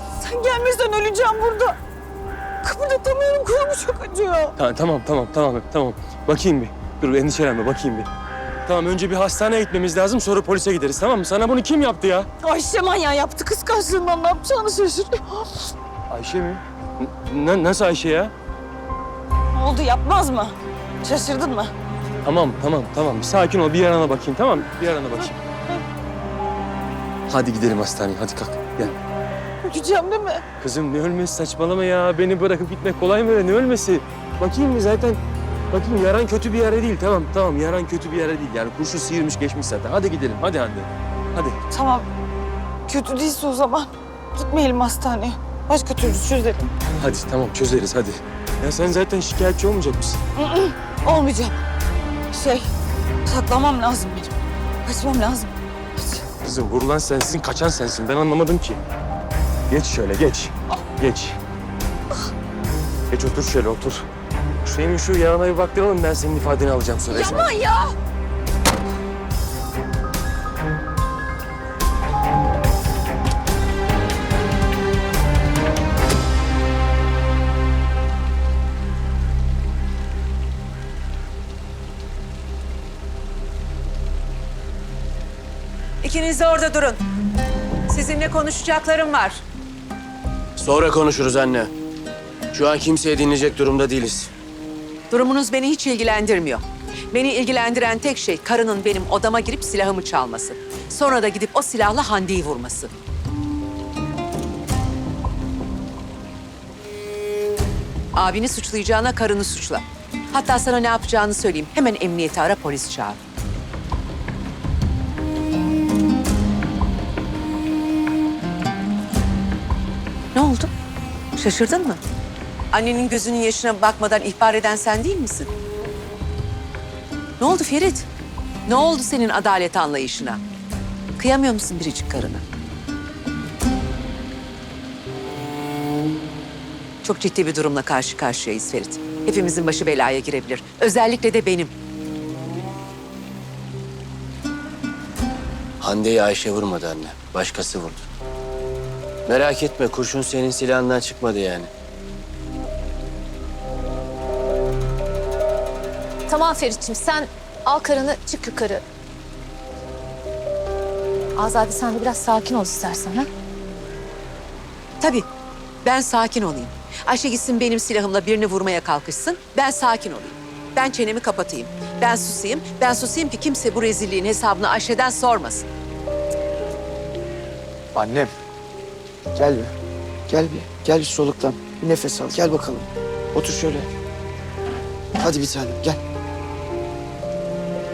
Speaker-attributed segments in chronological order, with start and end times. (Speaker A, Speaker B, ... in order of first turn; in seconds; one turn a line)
Speaker A: 0.1-1.8
Speaker A: 2.6-4.6
Speaker B: 4.7-8.1
Speaker B: 8.7-12.3
Speaker A: 12.4-15.7
Speaker B: 16.1-16.6
Speaker B: 17.3-18.3
Speaker A: 19.5-21.7
Speaker B: 22.3-25.3
Speaker B: 27.3-28.9
Speaker A: 29.6-30.4
Speaker B: 30.6-35.2
Speaker B: 35.7-40.9
Speaker A: 41.7-42.1
Speaker A: 42.9-46.7
Speaker B: 47.0-50.2
Speaker A: 50.4-51.5
Speaker A: 52.3-52.7
Speaker A: 53.3-54.3
Speaker A: 54.9-56.2
Speaker B: 56.5-58.8
Speaker B: 59.7-61.4
Speaker B: 63.1-64.1
Speaker B: 64.7-67.5
Speaker A: 67.1-67.9
Speaker C: 86.0-87.0
Speaker C: 87.9-89.4
Speaker D: 90.6-91.7
Speaker D: 92.5-94.3
Speaker C: 95.1-102.9
Speaker C: 108.2-113.2
Speaker C: 120.3-120.7
Speaker C: 121.4-122.0
Speaker C: 122.7-125.5
Speaker C: 127.4-128.1
Speaker C: 128.7-130.4
Speaker C: 131.2-132.4
Speaker C: 137.0-141.7
Speaker D: 145.8-148.1
Speaker D: 149.3-151.7
Speaker E: 156.3-158.8
Speaker E: 161.4-163.3
Speaker C: 165.0-165.3
Speaker C: 165.8-175.7
Speaker F: 177.9-178.3
Speaker F: 179.3-179.7
Speaker F: 180.3-183.9
Speaker F: 185.2-186.0